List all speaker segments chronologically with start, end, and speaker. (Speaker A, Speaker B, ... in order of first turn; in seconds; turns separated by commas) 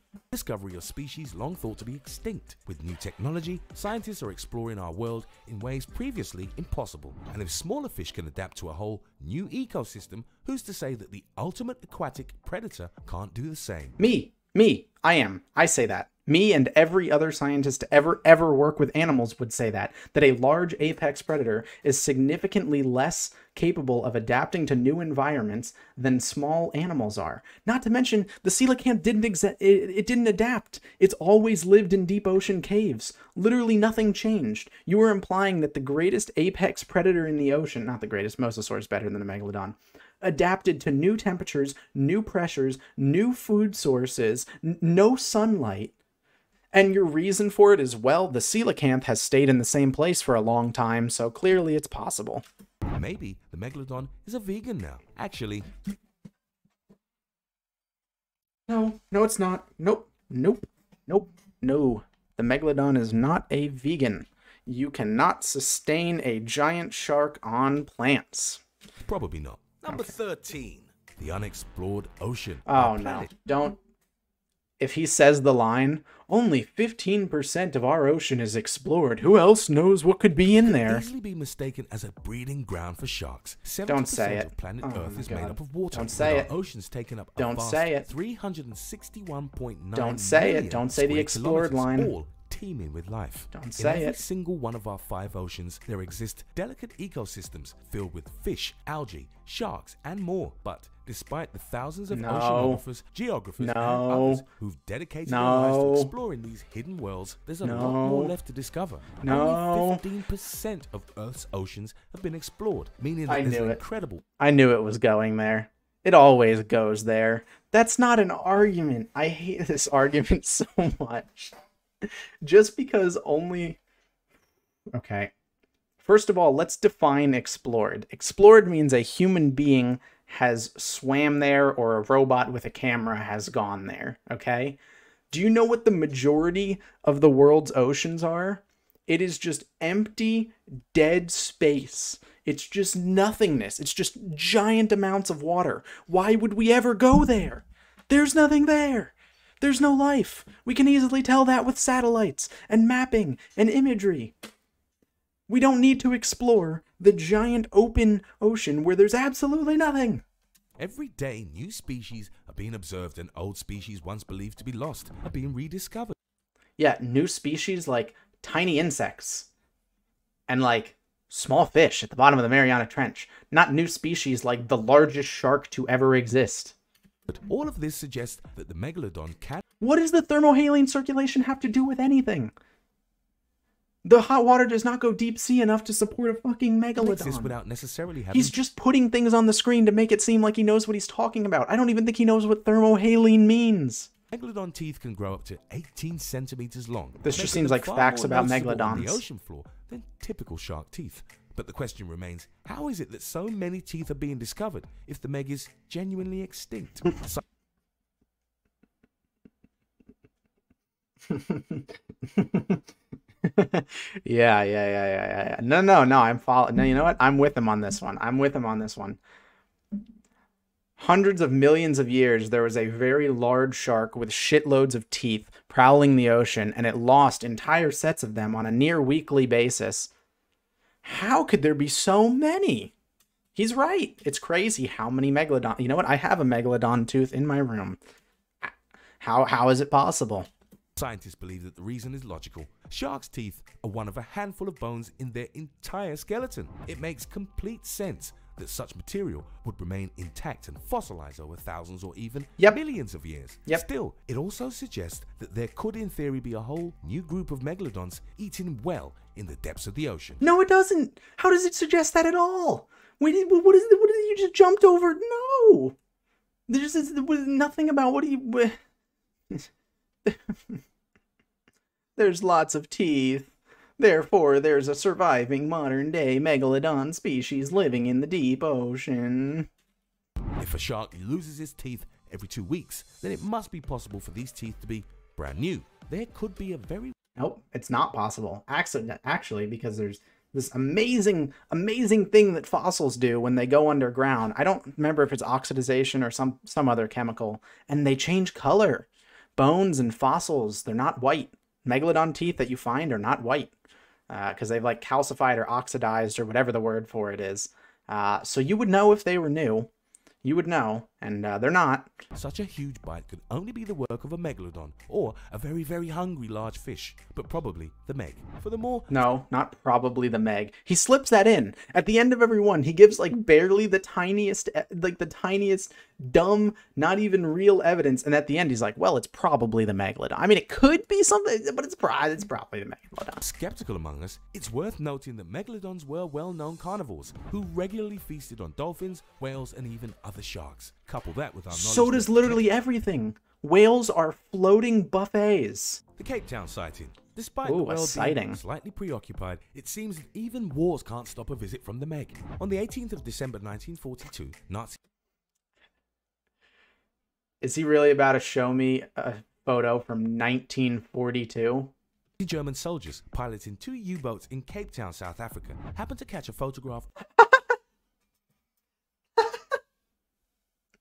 Speaker A: 0.3-14.0, Speaker B: 14.0-45.9, Speaker B: 46.7-52.4, Speaker A: 52.9-55.7, Speaker B: 58.7-68.6, Speaker A: 69.0-73.3, Speaker B: 72.7-73.8, Speaker B: 74.8-81.0, Speaker A: 80.6-114.2, Speaker B: 83.9-86.5, Speaker B: 87.4-88.0, Speaker B: 90.0-92.1, Speaker B: 93.5-94.2, Speaker B: 102.1-102.8, Speaker B: 103.6-104.4, Speaker B: 105.2-106.1, Speaker B: 107.6-108.3, Speaker B: 109.2-110.0, Speaker B: 113.3-113.8, Speaker B: 114.4-123.8, Speaker B: 124.9-125.3, Speaker B: 126.0-134.8, Speaker B: 135.3-154.3, Speaker B: 155.5-160.2, Speaker A: 160.8-166.2, Speaker B: 166.8-169.5, Speaker B: 170.5-176.8, Speaker A: 177.3-179.6, Speaker B: 179.8-182.5, Speaker B: 184.0-187.5, Speaker A: 187.0-188.6, Speaker B: 188.3-194.1, Speaker A: 194.3-207.4, Speaker B: 197.2-199.2, Speaker B: 211.3-212.8, Speaker B: 213.4-219.2, Speaker B: 221.0-230.1, Speaker B: 231.0-232.9, Speaker B: 233.5-238.0, Speaker B: 238.6-240.5, Speaker A: 240.9-260.4, Speaker B: 260.4-265.9, Speaker B: 266.7-268.8, Speaker B: 270.2-270.8, Speaker B: 272.1-279.7, Speaker A: 280.6-287.1, Speaker B: 287.4-303.7, Speaker B: 304.3-309.9, Speaker B: 310.4-312.1, Speaker A: 312.3-319.1, Speaker B: 319.1-333.4, Speaker A: 333.4-342.6, Speaker B: 341.7-346.0, Speaker A: 346.1-355.0, Speaker B: 347.6-348.6, Speaker B: 357.6-361.9, Speaker A: 362.4-367.1